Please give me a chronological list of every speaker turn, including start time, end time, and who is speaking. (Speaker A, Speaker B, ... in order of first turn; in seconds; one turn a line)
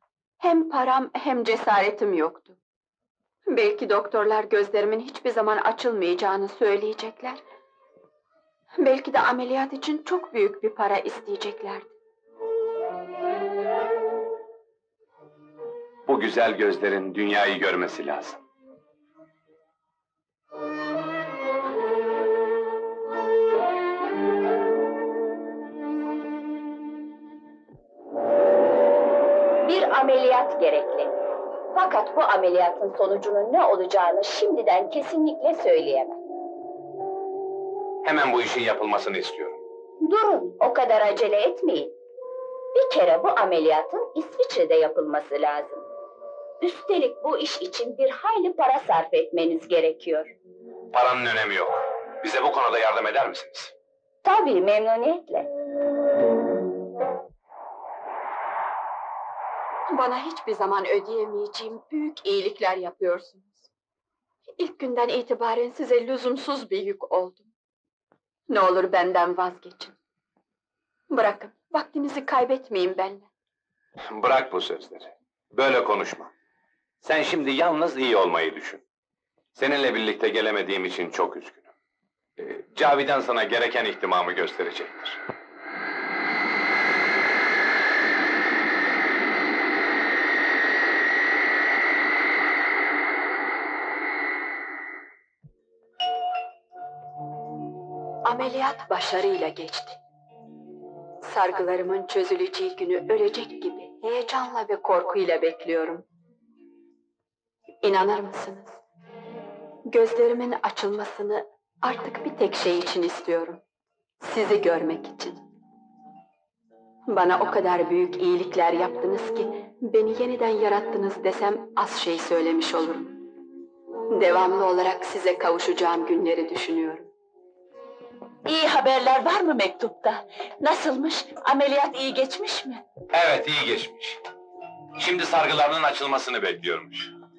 Speaker A: 0.4-2.6
Speaker A: 3.5-7.4
Speaker A: 8.8-11.9
Speaker B: 16.1-18.4
Speaker C: 29.6-31.1
Speaker C: 31.7-36.2
Speaker B: 38.0-39.6
Speaker C: 40.0-42.0
Speaker C: 42.7-45.9
Speaker C: 46.6-50.3
Speaker B: 50.9-53.7
Speaker C: 54.2-55.5
Speaker A: 59.9-63.7
Speaker A: 64.6-67.5
Speaker A: 68.5-70.0
Speaker A: 71.1-73.3
Speaker B: 74.1-76.3
Speaker B: 77.0-78.8
Speaker B: 79.5-81.7
Speaker B: 82.4-85.2
Speaker A: 98.2-100.0
Speaker A: 101.2-106.0
Speaker A: 107.8-108.8
Speaker A: 109.9-113.6
Speaker A: 114.2-115.4
Speaker A: 117.1-123.2
Speaker A: 124.1-127.1
Speaker D: 128.5-132.8
Speaker B: 133.1-134.2
Speaker B: 135.0-137.1